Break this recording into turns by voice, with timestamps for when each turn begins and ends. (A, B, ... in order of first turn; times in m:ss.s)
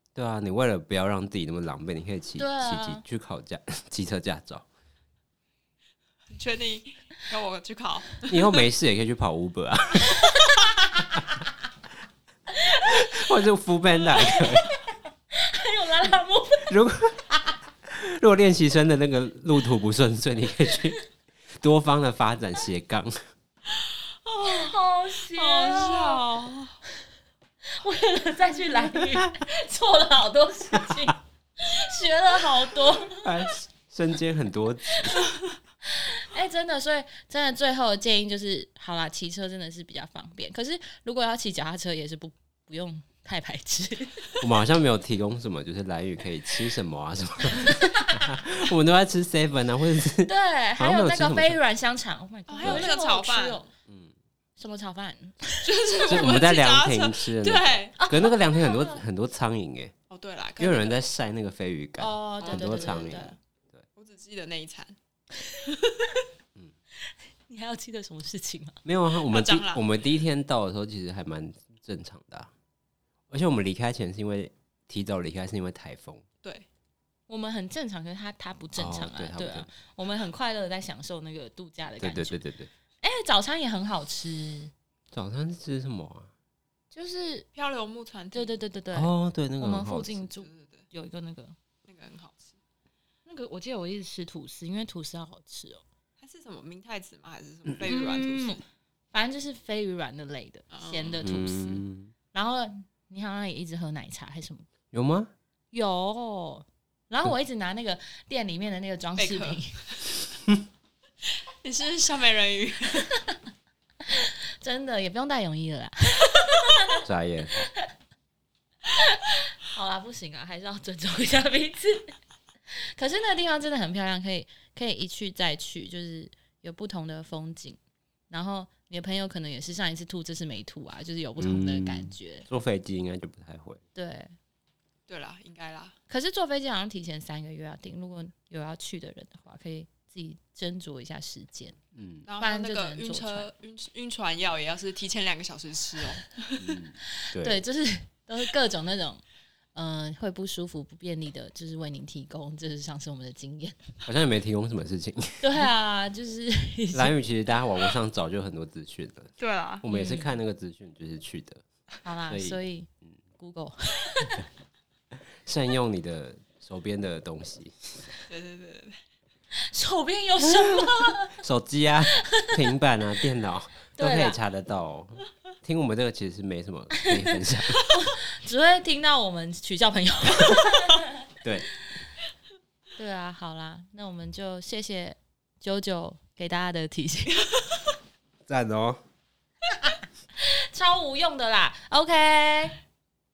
0:00.2-0:04.7 A
0:02.4-0:03.0 B
0:06.3-0:08.6 C
0:08.3-0:10.3 A
0:10.5-0:11.2 B
0:12.7-0:13.1 B
0:12.9-0:14.7 A
0:14.0-0:14.8 B
0:15.3-0:16.8 B
0:16.7-0:17.2 A
0:17.9-0:21.0 A
0:21.6-0:23.1 A
0:23.8-0:24.8 C
0:24.4-0:26.2 B
0:25.3-0:26.8 C
0:27.7-0:33.3 B
0:33.2-0:35.2 A
0:35.9-0:44.3 B
0:44.4-0:51.6 A
0:50.2-0:53.7 B
0:52.5-0:53.7 C
0:52.6-0:52.9 A
0:53.9-0:54.1 A
0:54.6-0:55.6 B
0:55.6-0:58.0 C
0:56.1-0:59.9 A
0:58.0-0:59.0 B
1:00.1-1:01.0 C
1:00.6-1:03.8 A
1:02.0-1:03.4 B
1:02.4-1:03.3 C
1:04.0-1:05.0 C
1:07.5-1:08.8 B
1:08.8-1:12.5 A
1:09.3-1:09.8 C
1:13.3-1:16.2 A
1:17.3-1:22.4 B
1:18.8-1:19.7 A
1:22.0-1:22.7 A
1:23.0-1:24.7 B
1:25.1-1:26.3 A
1:26.9-1:27.5 B
1:27.5-1:28.5 C
1:28.3-1:31.6 B
1:28.9-1:30.3 A
1:30.4-1:30.9 C
1:31.9-1:32.6 C
1:33.2-1:35.8 B
1:36.2-1:38.6 C
1:37.9-1:38.6 B
1:39.1-1:44.7 B
1:40.7-1:41.3 C
1:41.2-1:42.1 A
1:44.9-1:45.3 A
1:45.7-1:49.8 B
1:49.2-1:50.0 C
1:51.6-1:53.2 C
1:54.1-1:57.0 B
1:57.0-1:57.7 A
1:58.9-2:02.1 B
2:02.8-2:07.8 B
2:08.3-2:12.5 B
2:11.4-2:13.8 A
2:14.0-2:14.4 B
2:15.1-2:16.0 C
2:16.1-2:21.8 B
2:22.0-2:22.3 A
2:22.3-2:26.7 C
2:22.4-2:23.5 B
2:26.6-2:27.6 A
2:27.2-2:29.2 B
2:29.8-2:33.8 B
2:34.0-2:35.6 A
2:35.4-2:37.2 B
2:36.9-2:41.6 A
2:39.4-2:39.8 C
2:39.9-2:40.4 B
2:42.0-2:44.4 B
2:42.3-2:42.6 A
2:45.5-2:48.1 A
2:48.3-2:49.0 C
2:49.6-2:51.4 B
2:51.4-2:57.8 A
2:54.0-2:54.4 B
2:57.8-3:01.1 B
3:01.4-3:01.7 A
3:03.0-3:07.4 B
3:08.5-3:09.0 A
3:09.9-3:12.8 B